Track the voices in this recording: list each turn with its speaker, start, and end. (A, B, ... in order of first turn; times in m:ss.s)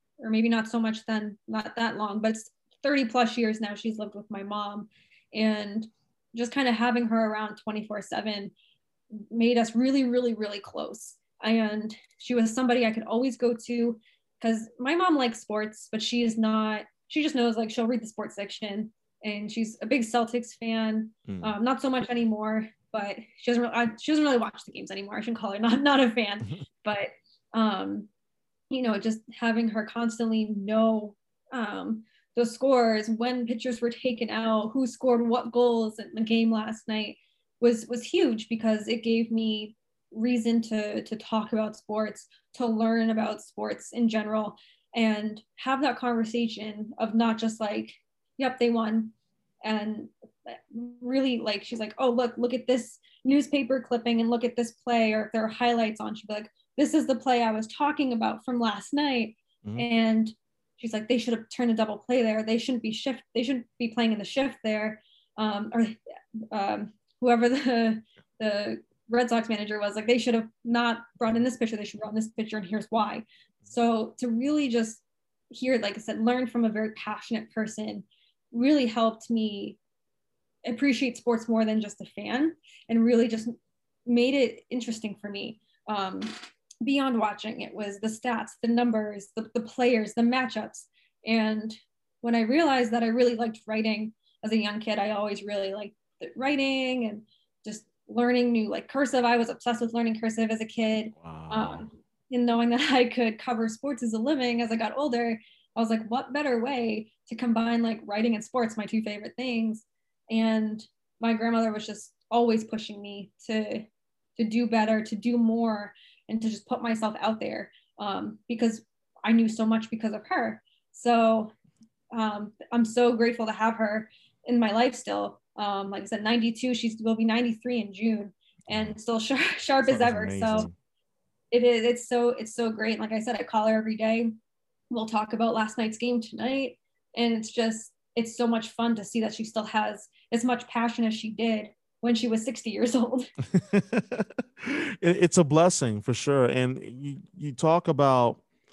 0:00.2-0:08.5 A
0:09.2-0:28.1 A
0:21.3-0:21.6 B
0:28.7-1:19.8 A
1:20.6-2:01.5 A
1:41.2-1:41.9 B
2:02.1-2:10.7 A
2:08.7-2:09.0 B
2:09.9-2:10.7 B
2:11.5-2:14.3 A
2:14.9-2:23.3 A
2:23.5-2:28.4 B